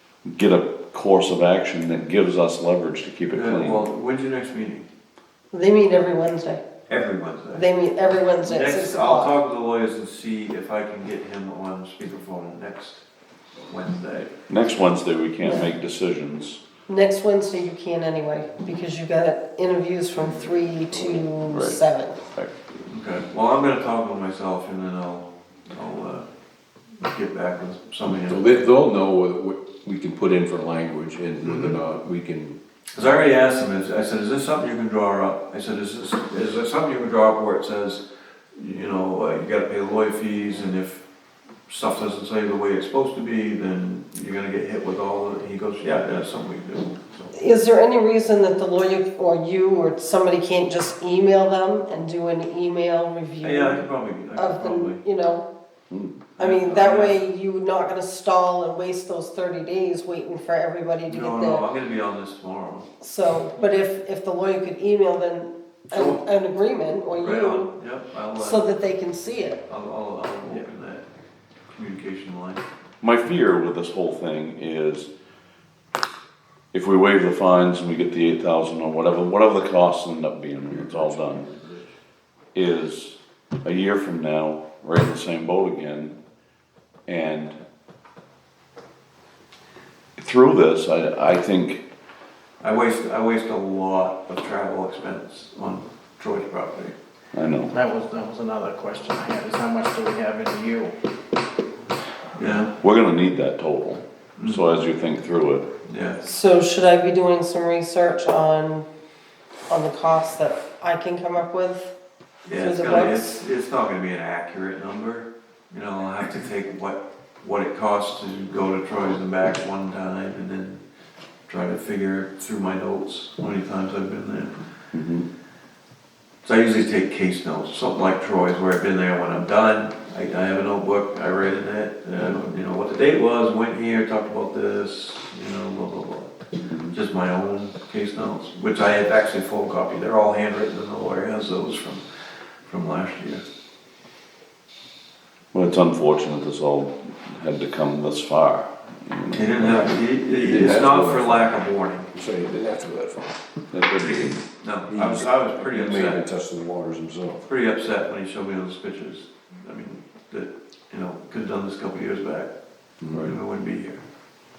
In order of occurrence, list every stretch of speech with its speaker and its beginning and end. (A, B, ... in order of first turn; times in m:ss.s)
0:00.2-0:03.9 A
0:03.3-0:04.9 B
0:05.5-0:06.6 C
0:06.9-0:07.7 B
0:07.5-0:09.3 C
0:08.4-0:13.0 B
0:13.7-0:14.3 B
0:14.5-0:16.6 A
0:15.4-0:15.7 C
0:16.9-0:22.2 C
0:21.0-0:21.8 A
0:22.9-0:26.3 B
0:27.0-0:28.7 B
0:28.3-0:32.6 D
0:31.4-0:31.8 B
0:32.9-0:38.0 B
0:38.6-0:41.0 B
0:41.7-0:47.4 B
0:47.3-0:55.5 C
0:53.4-0:55.0 B
0:55.9-0:56.2 A
0:56.4-0:57.2 B
0:56.4-1:01.7 C
1:01.1-1:02.9 B
1:03.0-1:07.7 C
1:05.9-1:06.2 B
1:07.2-1:08.7 B
1:08.4-1:09.6 C
1:09.7-1:11.0 B
1:11.7-1:12.6 B
1:13.0-1:15.1 A
1:16.7-1:21.5 A
1:20.8-1:21.8 D
1:22.5-1:26.2 A
1:27.1-1:27.6 A
1:30.2-1:31.8 A
1:32.6-1:37.0 B
1:37.3-1:37.8 A
1:37.7-1:41.0 E
1:42.4-1:42.7 B
1:42.8-1:45.7 A
1:45.9-1:46.2 B
1:46.2-1:48.9 C
1:49.7-1:51.9 C
1:52.5-1:53.4 C
1:52.5-2:00.8 B
2:01.5-2:04.6 B
2:04.9-2:05.3 A
2:06.4-2:16.4 B
2:16.7-2:17.0 A
2:16.9-2:23.4 B
2:25.5-2:30.0 A
2:29.3-2:32.1 B
2:30.4-2:37.5 D
2:33.7-2:34.4 A
2:34.6-2:36.2 B
2:37.5-2:42.5 B
2:43.0-2:43.3 D
2:43.1-2:44.0 B